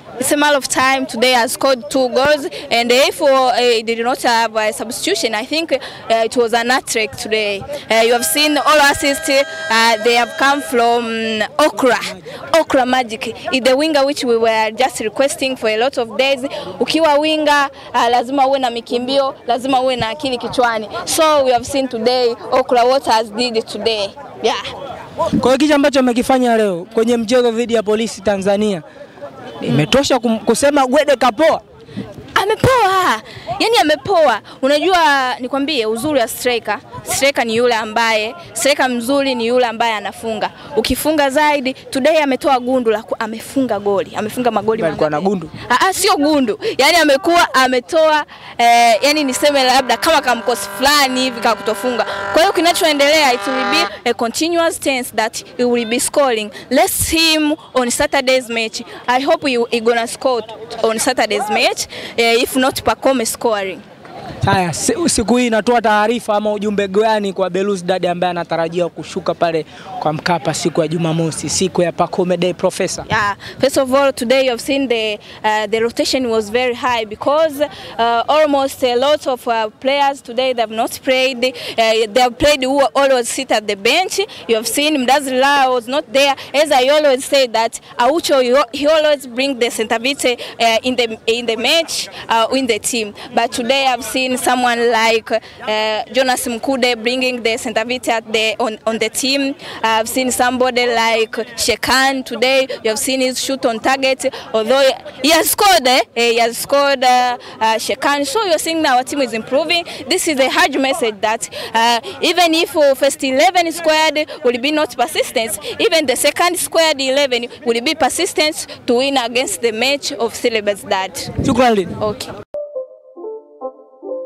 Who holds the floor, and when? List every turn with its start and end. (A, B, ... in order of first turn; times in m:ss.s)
0:00.2-0:24.7 A
0:25.4-0:28.8 B
0:29.6-0:31.6 B
0:32.3-1:03.8 A
0:44.8-0:45.5 B
1:04.4-1:13.0 B
1:13.1-2:02.3 A
2:01.4-2:01.9 B